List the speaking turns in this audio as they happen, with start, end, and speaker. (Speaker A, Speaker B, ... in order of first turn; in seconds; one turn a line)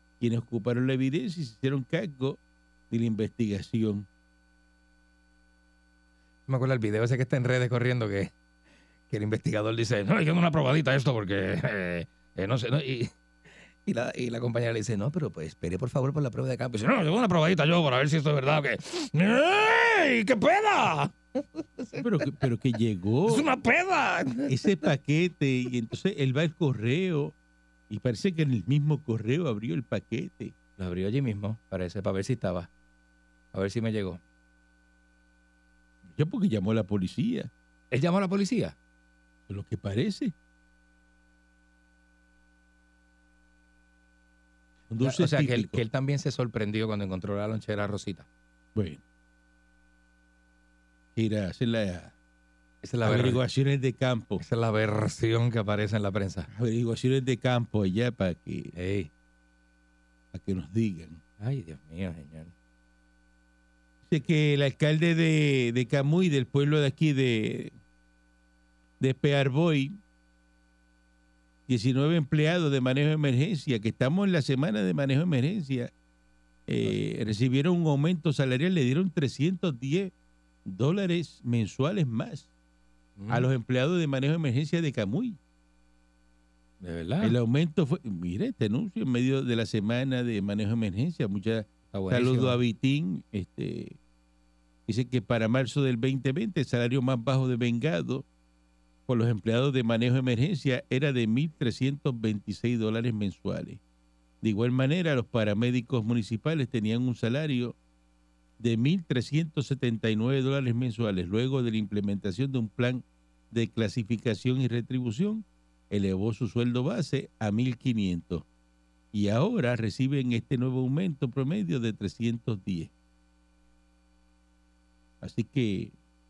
Speaker A: 0.2-2.4
Speaker A: 2.9-4.1
Speaker B: 6.5-8.3
Speaker B: 9.1-13.1
Speaker B: 13.8-22.4
Speaker A: 22.0-23.5
Speaker B: 23.3-24.9
Speaker A: 24.5-27.3
Speaker A: 27.9-30.6
Speaker B: 30.8-32.7
Speaker B: 33.5-34.2
Speaker A: 36.1-37.5
Speaker B: 37.9-38.8
Speaker A: 39.5-40.3
Speaker A: 44.9-45.8
Speaker B: 45.0-48.3
Speaker A: 48.8-49.0
Speaker A: 51.1-52.1
Speaker B: 52.8-53.4
Speaker A: 53.0-54.4
Speaker B: 54.4-56.5
Speaker A: 56.5-58.7
Speaker B: 58.8-59.1
Speaker A: 60.3-61.2
Speaker B: 61.4-62.5
Speaker A: 64.1-67.7
Speaker A: 69.0-70.0
Speaker A: 71.7-75.9
Speaker A: 76.7-80.1
Speaker A: 80.7-82.5
Speaker B: 83.2-83.5
Speaker A: 83.3-85.4
Speaker B: 86.8-87.3
Speaker A: 87.2-94.0
Speaker B: 91.9-92.6
Speaker A: 94.9-98.2
Speaker A: 99.1-103.8
Speaker A: 104.4-107.8
Speaker A: 108.6-118.5
Speaker A: 119.1-122.9
Speaker A: 125.2-125.9